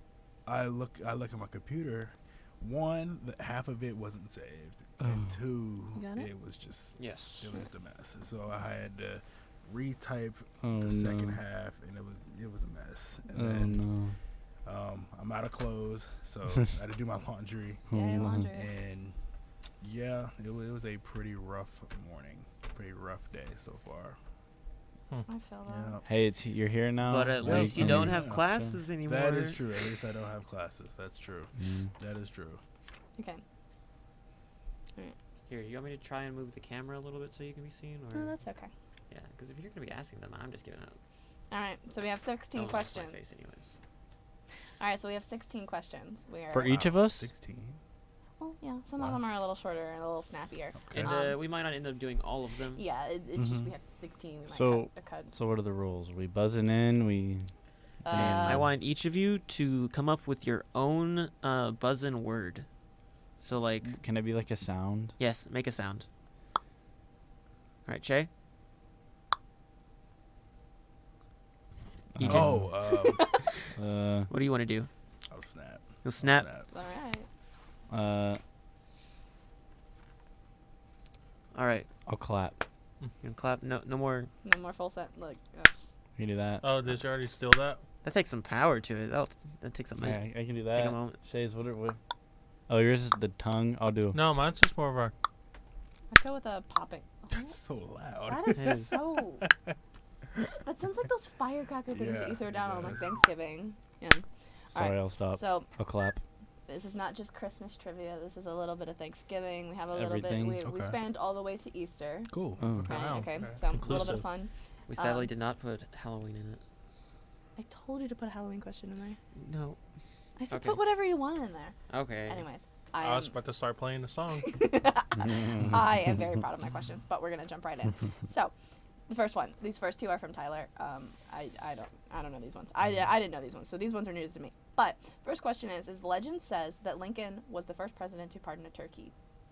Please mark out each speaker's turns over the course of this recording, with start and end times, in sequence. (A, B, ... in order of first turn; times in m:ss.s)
0:00.4-0:13.8 A
0:05.0-0:05.4 B
0:05.9-0:06.3 C
0:07.0-0:07.5 D
0:10.6-0:11.4 B
0:13.3-0:14.2 B
0:14.6-0:19.2 A
0:17.9-0:18.5 B
0:17.9-0:18.7 C
0:19.8-0:24.2 A
0:25.2-0:26.0 C
0:25.6-0:26.1 A
0:26.0-0:28.8 B
0:27.0-0:29.7 D
0:27.4-0:32.6 A
0:31.6-0:31.9 B
0:33.2-0:33.4 C
0:35.5-0:38.3 D
0:38.1-0:38.7 C
0:39.1-0:41.0 D
0:41.5-0:43.2 C
0:42.5-0:43.7 D
0:44.8-0:46.8 C
0:46.5-0:47.3 B
0:46.6-0:47.8 A
0:48.4-0:51.4 C
0:50.8-0:51.1 A
0:50.9-0:52.8 D
0:52.8-0:55.3 C
0:53.4-0:53.7 A
0:54.5-0:57.5 B
0:58.0-0:58.6 C
0:58.0-0:58.7 B
0:58.1-1:02.6 D
1:03.4-1:04.0 D
1:03.9-1:05.1 B
1:05.2-1:06.0 D
1:07.8-1:08.3 D
1:12.1-1:12.7 B
1:12.2-1:12.5 D
1:12.2-1:13.3 A
1:12.8-1:13.4 C
1:13.7-1:14.3 B
1:14.3-1:14.9 D
1:15.3-1:16.7 A
1:16.0-1:16.5 D
1:16.7-1:17.3 C
1:17.9-1:18.4 B
1:21.5-1:21.9 D
1:22.0-1:22.6 B
1:23.2-1:24.3 D
1:24.4-1:25.7 C
1:26.2-1:26.6 B
1:26.6-1:27.8 E
1:28.0-1:31.2 D
1:30.0-1:32.0 B
1:32.7-1:34.2 B
1:34.1-1:35.1 E
1:36.1-1:37.6 C
1:37.3-1:39.7 A
1:38.2-1:39.4 C
1:38.6-1:39.0 D
1:40.6-1:45.7 C
1:41.9-1:43.2 A
1:44.7-1:46.2 B
1:46.7-1:52.3 C
1:49.9-1:50.6 B
1:50.6-1:51.0 A
1:52.3-1:54.0 A
1:52.6-1:52.9 B
1:52.9-1:55.3 C
1:52.9-1:54.2 E
1:54.9-1:56.6 D
1:57.6-1:59.2 C
1:59.3-1:59.8 D
2:00.4-2:01.8 C
2:00.5-2:00.8 D
2:01.9-2:02.4 D
2:02.3-2:03.3 C
2:03.0-2:04.6 E
2:04.4-2:08.5 C
2:05.2-2:05.8 B
2:09.1-2:19.1 C